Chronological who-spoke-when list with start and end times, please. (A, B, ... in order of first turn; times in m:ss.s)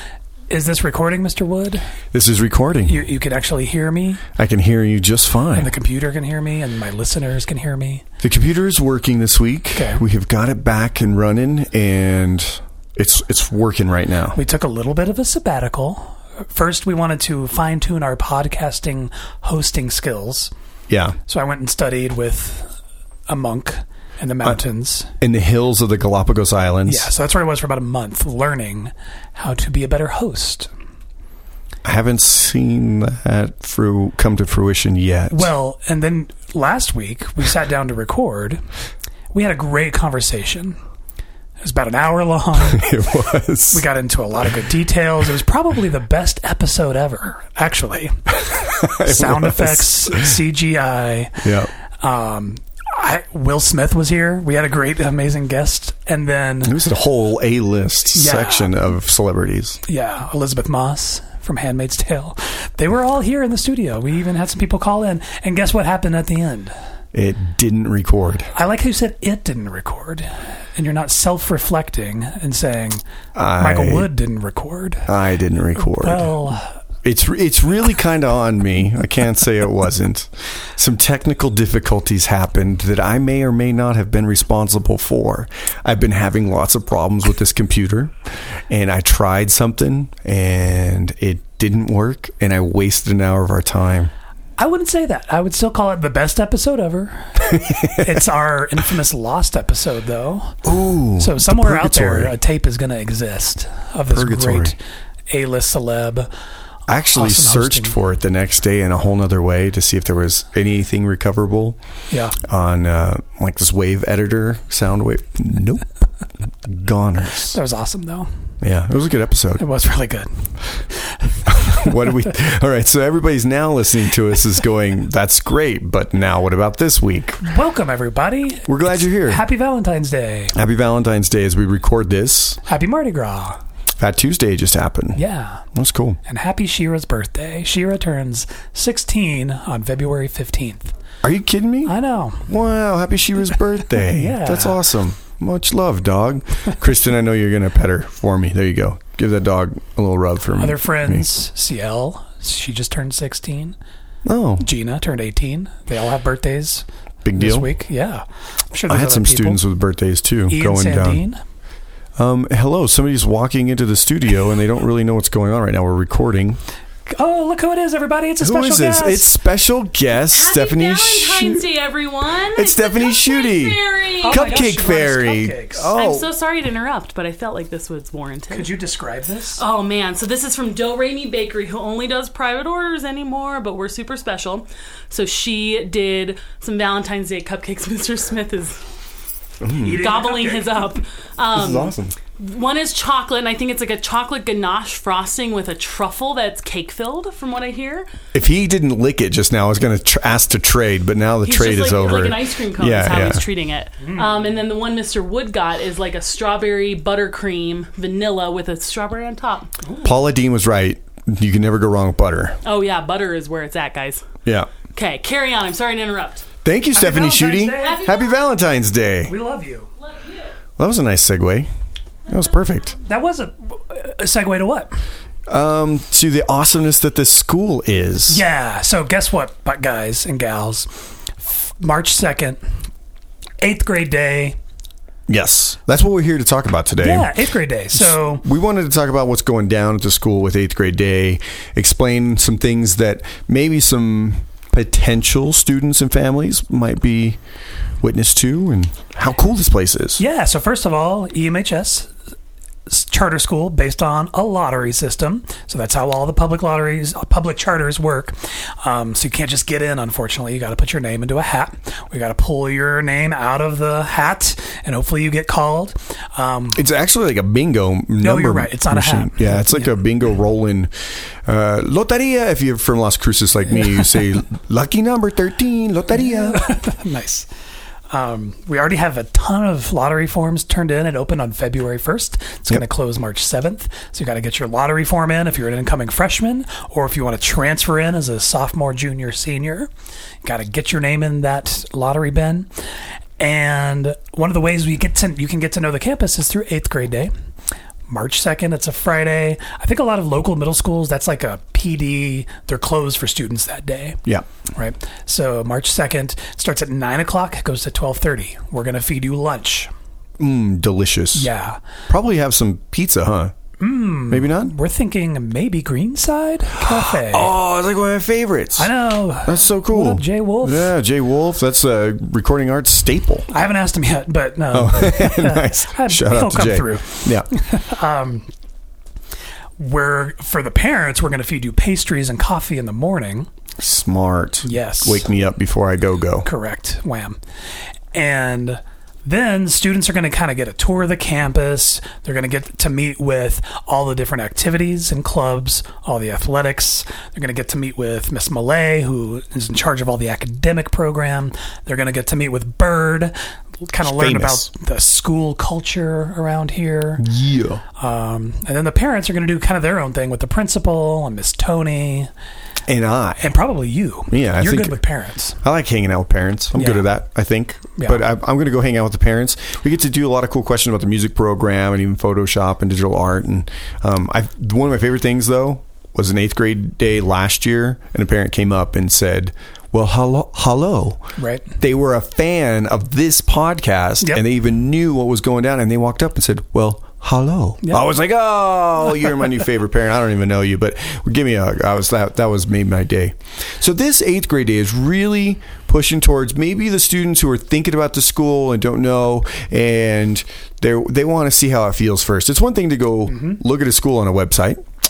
0:00.5-0:01.9 A
0:02.1-0:03.0 B
0:02.9-0:04.2 A
0:04.4-0:05.7 B
0:05.5-0:08.0 A
0:08.2-0:14.4 B
0:09.8-0:10.0 A
0:14.3-0:20.5 A
0:20.9-0:21.2 B
0:21.3-0:22.7 A
0:23.3-0:25.1 A
0:25.2-0:27.1 B
0:26.9-0:30.7 A
0:31.8-0:35.5 B
0:35.3-0:38.6 A
0:39.3-0:40.8 A
0:41.6-0:42.9 A
0:42.6-0:43.8 B
0:43.7-0:51.5 A
0:48.4-0:50.3 B
0:51.4-0:51.7 B
0:52.0-0:56.8 A
0:56.6-0:59.8 B
0:58.1-0:58.7 A
0:59.9-1:06.7 A
1:07.1-1:08.5 B
1:08.5-1:13.0 A
1:13.4-1:14.1 B
1:13.6-1:15.1 A
1:15.1-1:16.3 B
1:15.9-1:16.7 A
1:17.0-1:28.1 B
1:28.7-1:34.1 B
1:34.6-1:40.6 A
1:37.5-1:38.0 B
1:40.6-1:42.3 B
1:41.2-1:44.8 A
1:44.1-1:44.8 B
1:45.3-1:46.3 A
1:46.9-1:51.8 B
1:47.1-1:48.0 A
1:52.1-1:52.4 A
1:52.4-1:55.8 B
1:56.6-1:57.6 B
1:57.5-1:58.3 A
1:58.6-1:59.6 B
1:59.6-2:00.5 A
2:01.1-2:01.8 A
2:01.5-2:07.4 B
2:07.4-2:10.6 A
2:08.7-2:09.4 B
2:10.6-2:12.6 B
2:12.6-2:13.6 A
2:14.0-2:15.2 B
2:15.2-2:15.6 A
2:15.7-2:16.2 B
2:16.2-2:20.9 A
2:21.2-2:21.9 B
2:21.9-2:22.5 A
2:22.5-2:31.3 B
2:24.1-2:24.8 A
2:30.6-2:33.8 A
2:34.2-2:34.7 B
2:34.6-2:36.8 A
2:37.2-2:37.7 B
2:37.4-2:39.6 A
2:38.9-2:41.2 B
2:40.5-2:41.4 A
2:42.2-2:46.6 B
2:47.1-2:49.4 A
2:48.4-2:51.7 B
2:50.2-2:54.7 C
2:52.6-2:56.3 B
2:54.2-2:55.9 A
2:55.9-2:58.7 C
2:58.5-2:59.6 A
2:59.6-3:08.8 C
3:09.6-3:10.0 B
3:09.8-3:10.8 A
3:10.0-3:18.1 C
3:11.5-3:12.2 B
3:18.3-3:23.4 B
3:21.4-3:29.8 C
3:24.0-3:24.3 A
3:30.0-3:32.6 B
3:32.6-3:34.3 C
3:34.4-3:34.7 B
3:34.9-3:36.5 C
3:36.6-3:39.3 B
3:37.0-3:38.1 A
3:37.8-3:38.4 C
3:39.3-3:39.9 A
3:40.0-3:40.5 C
3:40.8-3:41.7 B
3:42.3-3:43.0 B
3:43.0-3:45.0 A
3:45.5-3:48.4 B
3:48.3-3:52.6 A
3:53.6-3:54.6 A
3:55.3-3:57.4 B
3:57.0-3:58.4 A
3:57.9-4:07.4 B
4:08.0-4:10.2 B
4:10.2-4:12.1 A
4:12.9-4:26.8 A
4:26.7-4:36.7 B
4:28.2-4:29.9 A
4:36.2-4:37.5 A
4:38.1-4:49.9 A
4:50.4-4:52.7 A
4:53.4-4:57.3 A
4:58.1-5:04.2 A
5:04.7-5:09.9 A
5:10.4-5:11.5 B
5:11.3-5:11.8 A
5:12.1-5:13.6 B
5:13.8-5:17.5 A
5:14.3-5:14.7 B
5:16.8-5:18.9 B
5:18.8-5:20.9 A
5:19.4-5:23.5 B
5:23.5-5:28.5 A
5:24.7-5:27.5 B
5:29.8-5:33.5 A
5:33.8-5:36.5 B
5:34.6-5:35.3 A
5:36.4-5:37.4 A
5:38.1-5:57.2 A
5:54.0-5:54.7 B
5:57.2-5:57.8 B
5:58.0-6:02.3 A
6:02.9-6:03.5 B
6:03.4-6:05.6 A
6:04.3-6:05.0 B
6:05.6-6:21.2 B
6:06.8-6:07.0 A
6:08.0-6:08.2 A
6:21.4-6:21.7 A
6:21.8-6:44.9 B
6:43.3-6:43.6 A